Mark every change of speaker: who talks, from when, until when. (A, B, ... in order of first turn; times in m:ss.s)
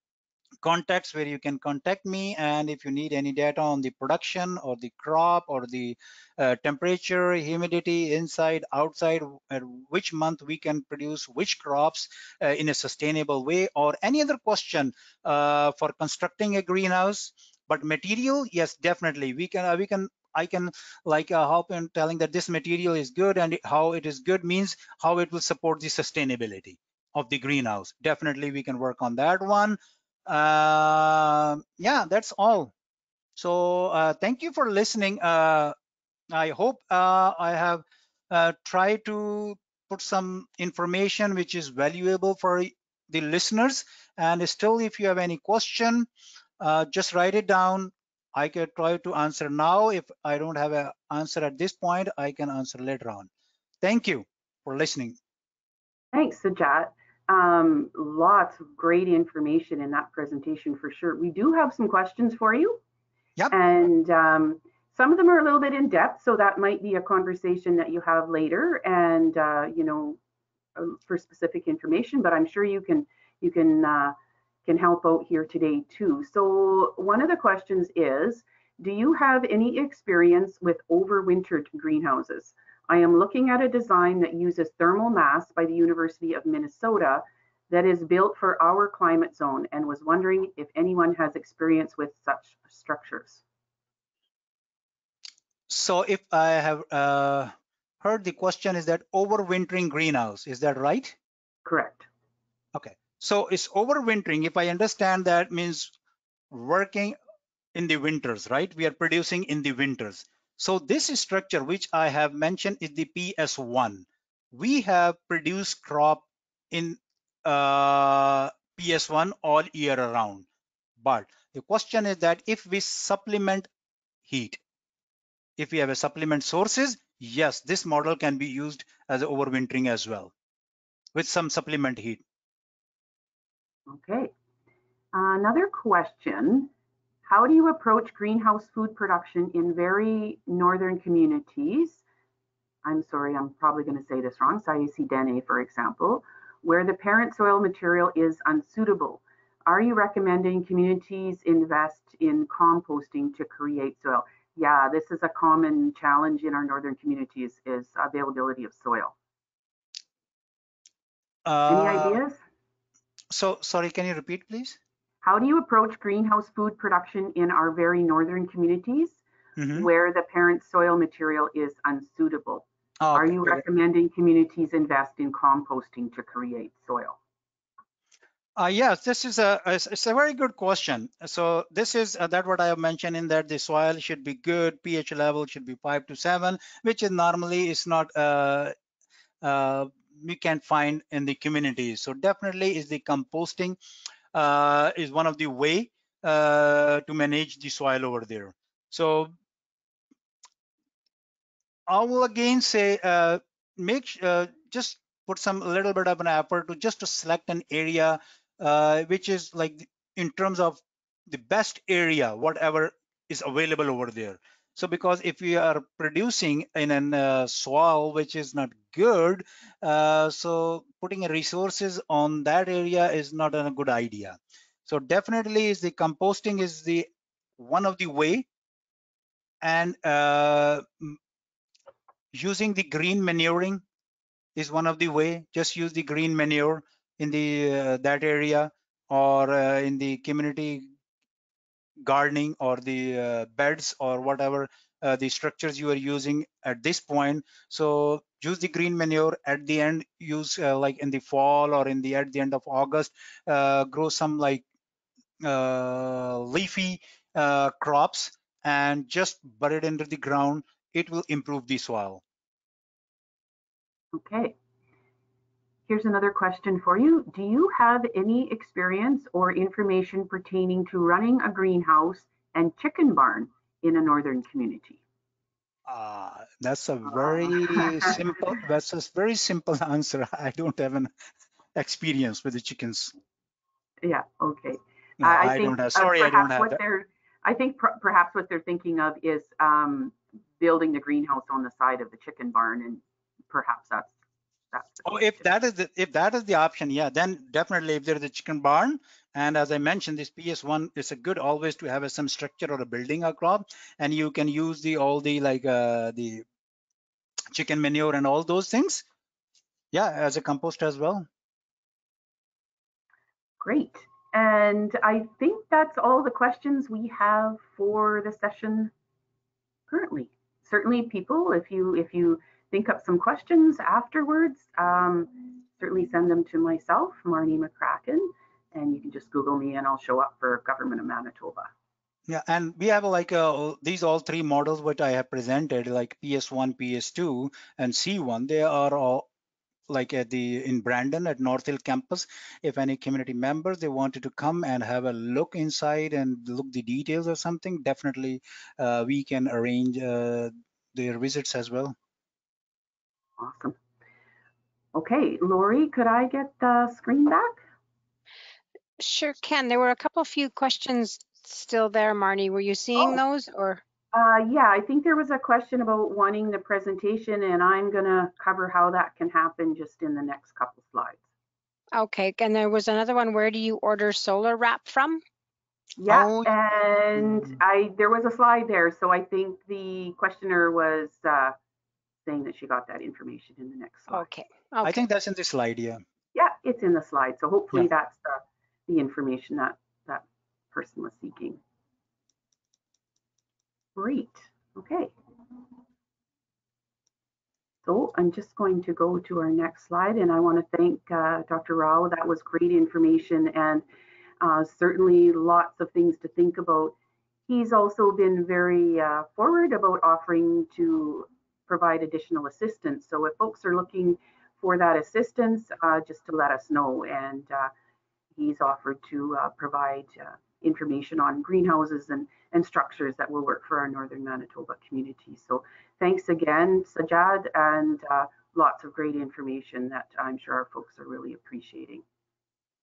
0:00.6-0:32.7 A
0:33.4-0:35.7 A
0:36.3-0:46.1 A
0:46.6-0:53.3 A
0:53.8-0:55.2 A
0:56.1-1:02.8 B
1:03.5-1:10.2 B
1:10.8-1:14.1 B
1:14.6-1:33.4 B
1:35.7-1:41.2 A
1:41.6-1:42.0 B
1:42.7-1:45.9 A
1:46.5-1:47.1 A
1:47.7-2:00.4 A
2:01.0-2:03.7 A
2:04.2-2:04.6 A
2:05.6-2:10.3 A
2:11.1-2:12.2 A
2:13.9-2:14.3 B
2:15.1-2:16.7 B
2:17.2-2:22.0 B
2:22.8-2:39.1 B
2:41.4-2:42.2 A
2:41.7-2:42.4 B
2:43.3-2:44.8 A
2:45.2-2:49.2 B
2:49.6-2:49.9 A
2:49.7-2:57.2 B
2:53.0-2:53.6 A
2:58.6-3:08.7 A
3:09.4-3:13.8 A
3:14.3-3:19.3 A
3:21.9-3:47.1 A
3:47.6-3:48.5 A
3:49.6-3:51.2 A
3:52.3-3:53.8 A
3:54.6-4:00.8 A
4:02.0-4:14.6 A
4:15.4-4:22.2 A
4:24.1-4:24.5 B
4:25.9-4:35.0 B
4:35.8-4:41.1 A
4:37.0-4:38.2 B
4:41.7-4:43.1 A
4:44.0-4:54.1 B
4:45.2-4:46.8 A
4:54.7-4:55.4 B
4:55.0-5:06.4 A
5:07.5-5:09.0 A
5:09.9-5:11.2 A
5:13.6-5:18.9 B
5:19.9-5:31.7 B
5:32.3-5:39.3 A
5:39.9-5:51.9 A
5:53.4-5:53.8 B
5:54.9-5:57.6 B
5:59.0-6:03.8 C
6:04.1-6:11.2 B
6:11.9-6:15.2 C
6:16.0-6:21.5 B
6:16.1-6:16.5 A
6:17.2-6:17.6 A
6:22.2-6:24.2 B
6:24.1-6:25.0 C
6:24.8-6:26.0 A
6:26.3-6:31.6 B
6:34.0-6:35.1 B
6:37.8-6:43.8 B
6:44.4-6:46.9 B
6:47.5-6:57.7 B
6:58.3-7:12.0 B